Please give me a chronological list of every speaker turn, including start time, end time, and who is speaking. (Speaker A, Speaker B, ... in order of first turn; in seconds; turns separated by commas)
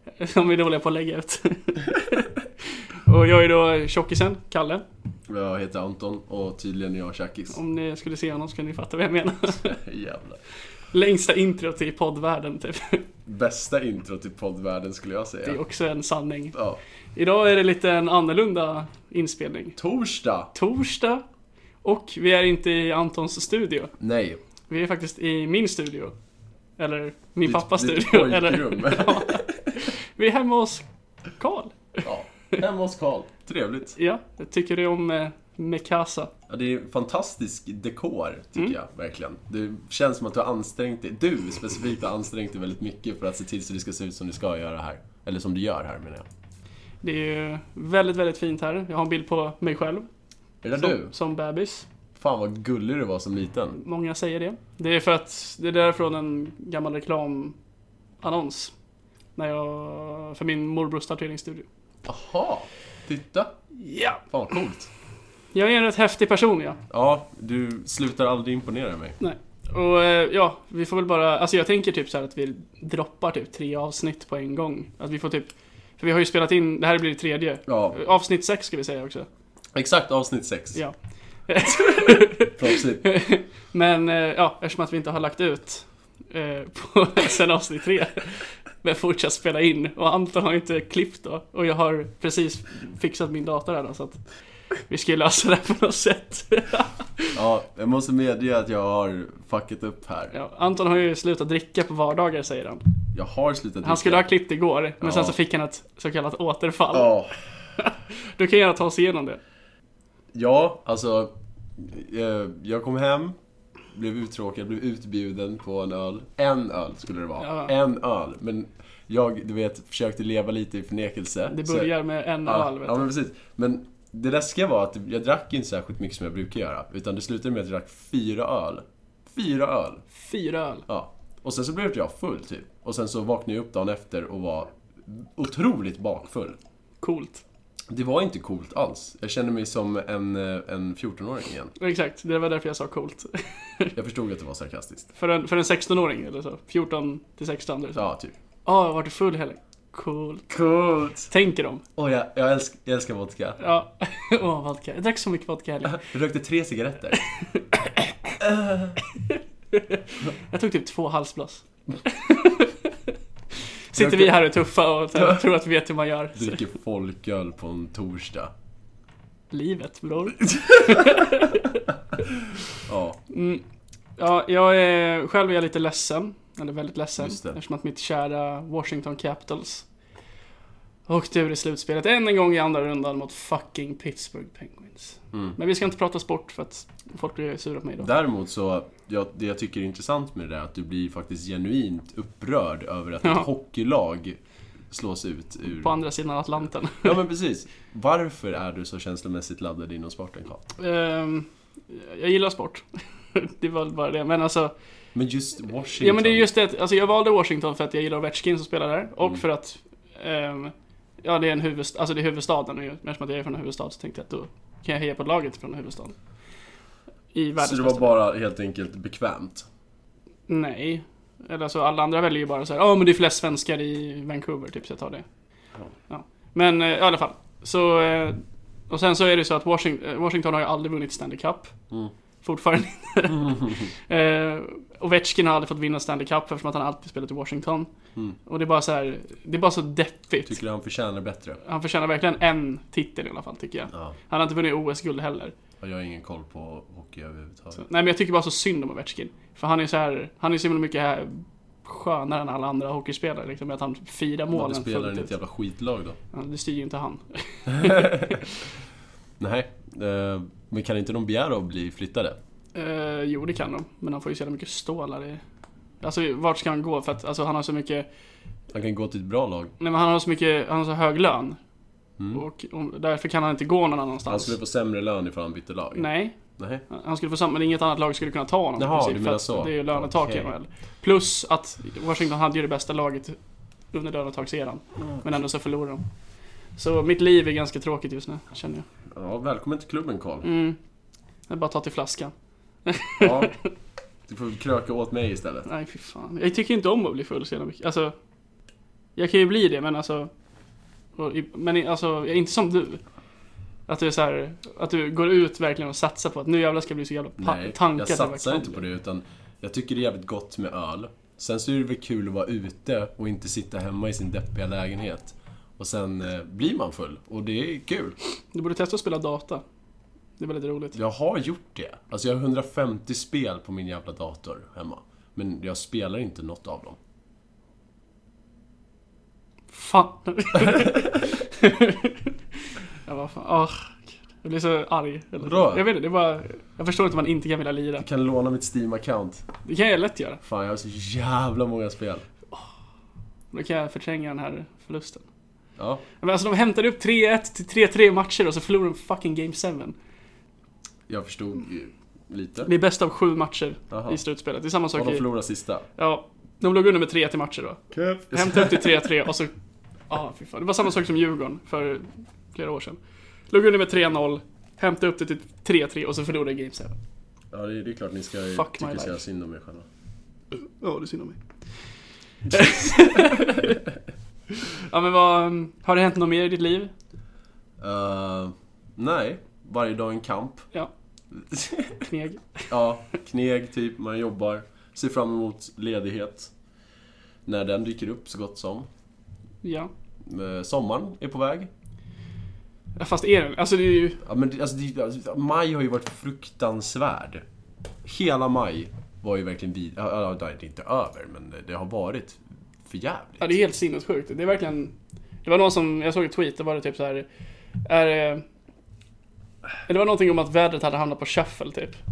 Speaker A: 0.2-2.4, Speaker A: 3.0-4.8, Speaker B: 5.3-7.6, Speaker A: 7.5-9.7, Speaker B: 9.6-10.4, Speaker A: 10.9-13.1, Speaker B: 13.2-15.6, Speaker A: 15.4-16.6, Speaker B: 16.5-16.8, Speaker A: 17.1-19.8, Speaker B: 19.8-20.5, Speaker A: 20.5-21.2, Speaker A: 21.8-23.9, Speaker B: 24.0-24.4, Speaker A: 24.7-26.1, Speaker A: 26.8-30.9, Speaker B: 27.4-29.7, Speaker A: 31.4-32.0, Speaker B: 32.0-34.0, Speaker A: 34.0-36.3, Speaker B: 36.5-46.3, Speaker A: 47.0-50.1, Speaker B: 50.6-51.1, Speaker A: 50.7-51.9, Speaker B: 52.1-53.8, Speaker A: 53.7-57.6, Speaker A: 58.2-58.7, Speaker A: 59.4-61.7, Speaker B: 62.0-63.5, Speaker A: 63.8-64.2, Speaker B: 64.3-64.9, Speaker A: 65.5-66.8, Speaker B: 66.9-69.2, Speaker A: 69.2-79.3, Speaker B: 77.7-78.0, Speaker B: 79.8-80.8, Speaker A: 81.5-94.2, Speaker B: 82.6-83.1, Speaker A: 94.9-97.3, Speaker B: 97.3-100.3, Speaker A: 100.3-102.8, Speaker B: 103.1-104.2, Speaker A: 103.8-107.1, Speaker B: 105.0-105.4, Speaker B: 106.9-107.4, Speaker A: 107.8-109.4, Speaker B: 110.3-113.4, Speaker B: 113.9-121.9, Speaker A: 117.4-117.7, Speaker A: 121.5-123.1, Speaker B: 122.4-130.0, Speaker A: 130.1-130.8, Speaker B: 130.9-136.6, Speaker A: 137.0-137.4, Speaker B: 137.9-141.7, Speaker A: 141.8-143.9, Speaker B: 144.0-145.1, Speaker A: 145.2-148.1, Speaker B: 147.9-148.3, Speaker A: 148.7-150.5, Speaker B: 150.5-151.3, Speaker A: 151.3-151.8, Speaker B: 152.0-153.6, Speaker A: 153.6-156.0, Speaker B: 155.9-157.2, Speaker B: 158.4-159.0, Speaker A: 159.2-163.1, Speaker A: 163.9-166.6, Speaker B: 164.0-164.5, Speaker B: 166.3-168.5, Speaker A: 169.5-171.8, Speaker B: 170.7-171.2, Speaker B: 172.8-173.2, Speaker A: 173.3-173.6, Speaker A: 174.2-179.8, Speaker B: 177.2-177.6, Speaker A: 181.1-188.1, Speaker B: 188.0-194.4, Speaker B: 194.9-195.9, Speaker A: 195.8-197.2, Speaker B: 197.0-200.7, Speaker A: 200.8-204.7, Speaker B: 205.2-206.5, Speaker A: 206.0-216.2, Speaker A: 217.3-218.2, Speaker B: 217.6-219.7, Speaker A: 220.5-225.2, Speaker A: 226.1-231.7, Speaker A: 232.4-237.9, Speaker B: 233.3-233.9, Speaker A: 238.5-240.6, Speaker B: 240.5-241.6, Speaker A: 241.6-245.6, Speaker B: 245.8-247.8, Speaker A: 247.8-255.3, Speaker B: 254.5-256.2, Speaker A: 256.3-258.6, Speaker B: 257.7-258.4, Speaker B: 259.4-262.4, Speaker A: 262.8-265.4, Speaker A: 266.0-268.1, Speaker B: 268.7-269.7, Speaker A: 269.8-271.6, Speaker A: 272.3-274.6, Speaker B: 274.3-276.8, Speaker A: 275.9-276.4, Speaker A: 276.9-283.4, Speaker B: 278.8-280.5, Speaker A: 283.9-286.1, Speaker A: 286.8-288.9, Speaker B: 289.1-290.5, Speaker A: 290.4-290.8, Speaker A: 291.5-292.3, Speaker A: 292.9-293.6, Speaker B: 293.2-293.6, Speaker B: 294.3-295.7, Speaker A: 295.6-298.1, Speaker A: 299.1-300.3, Speaker A: 301.2-303.0, Speaker A: 303.9-308.8, Speaker B: 307.4-318.1, Speaker A: 318.5-319.6, Speaker A: 320.4-321.0, Speaker B: 320.9-327.0, Speaker A: 329.7-332.3, Speaker A: 333.1-338.1, Speaker B: 335.4-335.9, Speaker B: 338.0-339.4, Speaker A: 339.6-340.4, Speaker B: 340.4-342.2, Speaker A: 343.5-345.2, Speaker B: 345.8-346.0, Speaker A: 346.2-349.9, Speaker B: 351.1-352.7, Speaker A: 352.6-355.2, Speaker B: 353.9-354.2, Speaker B: 354.9-355.9, Speaker A: 355.9-359.5, Speaker B: 357.9-359.1, Speaker A: 360.1-363.0, Speaker A: 363.5-367.0, Speaker B: 367.5-369.9, Speaker A: 368.5-369.2, Speaker A: 370.5-371.4, Speaker A: 372.5-373.8, Speaker B: 372.5-373.8, Speaker A: 374.5-376.9, Speaker B: 377.8-380.7, Speaker B: 381.3-382.1, Speaker A: 382.1-382.7, Speaker B: 382.7-386.5, Speaker B: 387.4-388.9, Speaker A: 389.6-389.9, Speaker B: 390.2-391.7, Speaker A: 393.0-394.2, Speaker B: 394.2-397.4, Speaker B: 398.1-403.6, Speaker A: 403.4-407.2, Speaker A: 407.9-408.4, Speaker A: 409.9-412.0